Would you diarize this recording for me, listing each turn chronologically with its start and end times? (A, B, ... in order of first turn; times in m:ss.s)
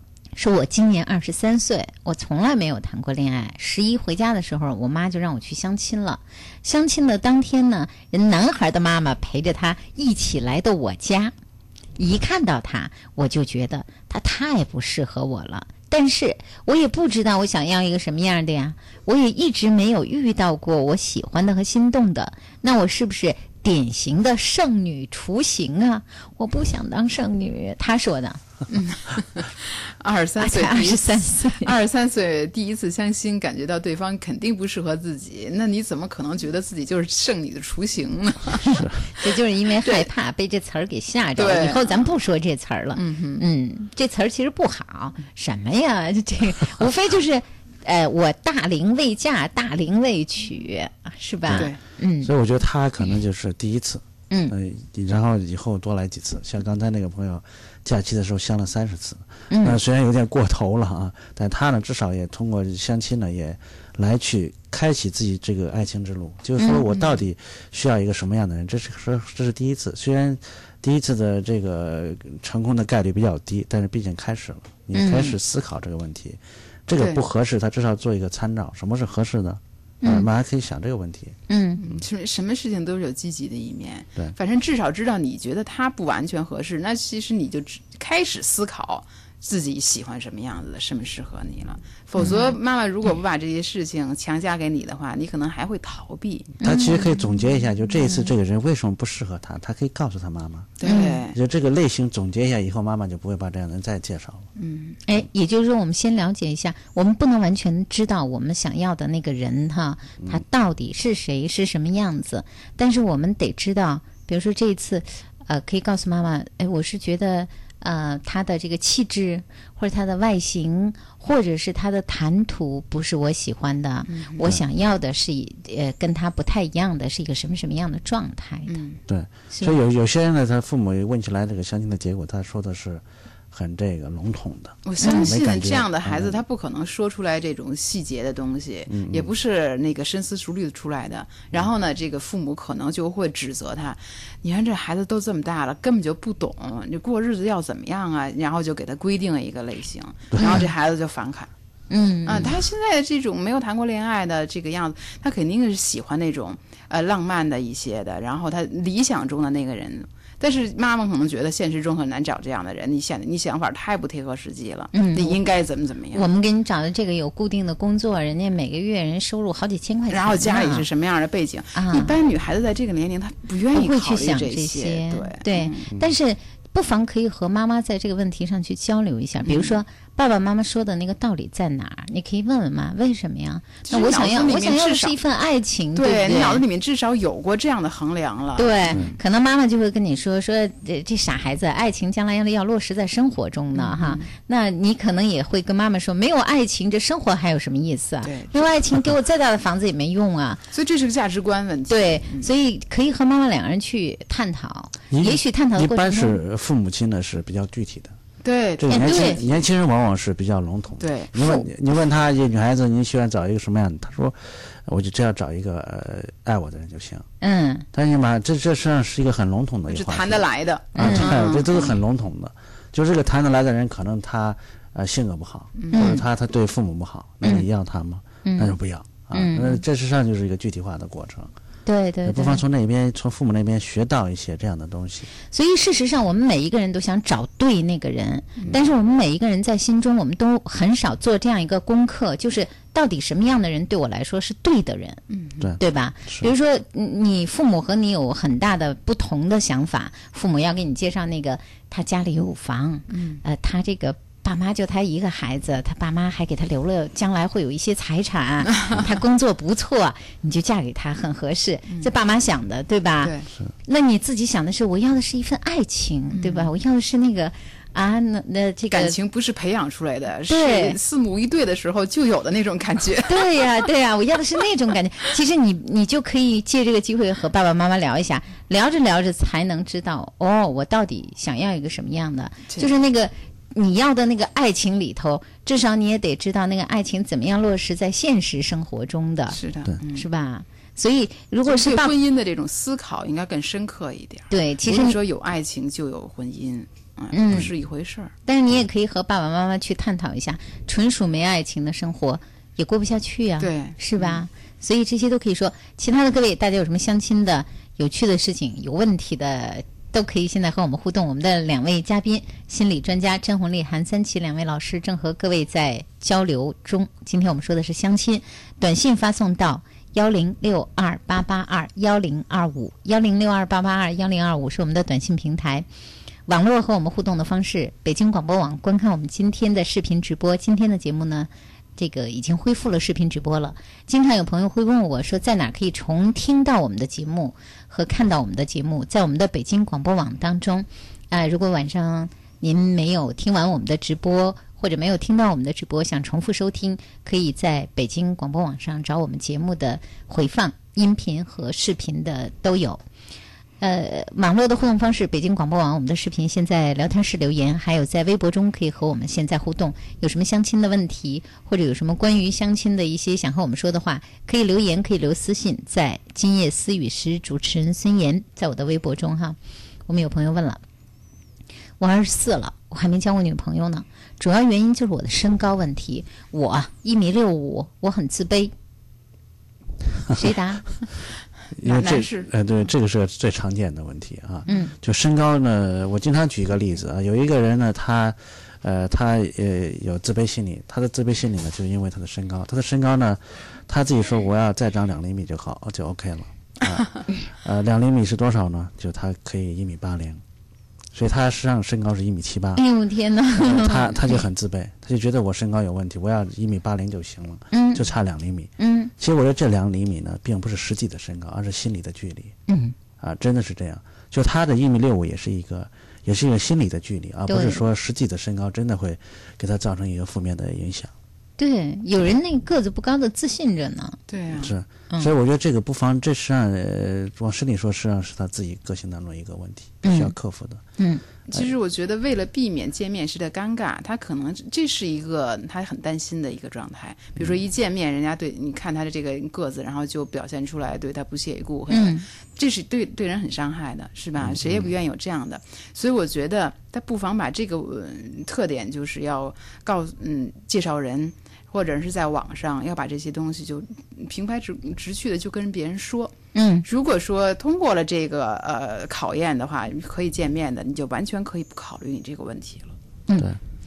0:00.4-0:11.3 A
0:12.0-0:28.4 A
0:28.7-0:38.9 B
0:30.4-0:31.7 A
0:39.2-0:52.3 A
0:41.4-0:42.2 B
0:42.9-0:43.4 B
0:51.5-1:21.4 C
0:51.5-0:51.8 B
0:59.5-0:59.8 A
1:06.6-1:06.8 A
1:14.9-1:15.4 A
1:20.0-1:20.3 A
1:21.5-1:21.8 A
1:21.8-1:37.0 B
1:32.2-1:32.6 A
1:36.6-1:37.1 A
1:36.6-1:40.8 C
1:38.0-1:38.3 A
1:40.8-1:41.4 B
1:40.8-1:41.2 A
1:41.3-1:44.5 C
1:44.6-1:45.0 B
1:45.0-2:08.8 A
2:04.1-2:04.6 B
2:08.7-2:09.0 B
2:09.1-2:16.4 C
2:09.5-2:09.8 A
2:14.8-2:31.5 B
2:15.0-2:15.3 A
2:18.9-2:19.3 C
2:30.3-2:30.6 C
2:31.9-2:32.5 A
2:32.3-2:46.3 B
2:44.9-2:45.4 A
2:46.1-2:50.9 A
2:50.1-2:55.9 B
2:51.8-2:52.2 A
2:53.7-3:06.6 A
2:59.4-2:59.8 B
3:03.8-3:05.2 B
3:06.0-3:09.1 B
3:08.6-3:20.6 A
3:13.7-3:14.3 B
3:18.2-3:18.7 B
3:20.7-3:22.5 B
3:21.9-3:26.4 A
3:25.1-3:28.2 C
3:28.4-3:29.4 B
3:28.8-3:37.3 C
3:28.9-3:29.4 A
3:31.0-3:31.3 B
3:31.4-3:31.7 A
3:37.4-3:37.9 A
3:37.9-3:51.5 C
3:39.9-3:42.0 B
3:41.0-3:41.6 A
3:45.8-3:46.1 B
3:45.9-3:46.2 A
3:47.4-3:47.7 A
3:48.4-3:48.8 A
3:49.3-3:49.8 A
3:51.9-3:52.6 A
3:52.2-3:55.3 C
3:55.5-4:05.2 A
4:05.3-4:05.7 B
4:05.6-4:06.5 C
4:05.8-4:23.3 A
4:13.1-4:13.4 B
4:23.2-4:23.5 B
4:23.9-4:29.2 A
4:26.3-4:26.7 B
4:28.9-4:33.5 B
4:30.5-4:31.0 A
4:33.3-4:49.6 A
4:49.5-4:50.3 B
4:50.1-4:52.1 A
4:51.7-4:58.3 B
4:54.5-4:55.2 A
4:57.3-4:57.7 A
4:58.5-5:25.9 A
5:03.6-5:04.4 B
5:26.5-5:53.0 A
5:53.8-6:10.8 A
6:12.0-6:18.7 A
6:20.3-6:20.8 A
6:21.8-6:40.4 C
6:21.8-6:22.5 B
6:24.7-6:24.9 A
6:41.1-6:42.8 C
6:42.8-6:44.4 A
6:43.6-6:52.6 C
6:47.7-6:48.1 A
6:48.8-6:49.1 A
6:52.7-6:53.0 A
6:53.2-7:01.1 C
6:57.5-6:57.8 A
7:01.6-7:04.2 A
7:04.3-7:04.7 B
7:04.5-7:10.8 C
7:10.0-7:10.3 A
7:11.0-7:11.2 A
7:11.5-7:43.0 B
7:21.9-7:22.2 A
7:24.4-7:24.9 C
7:36.5-7:36.9 A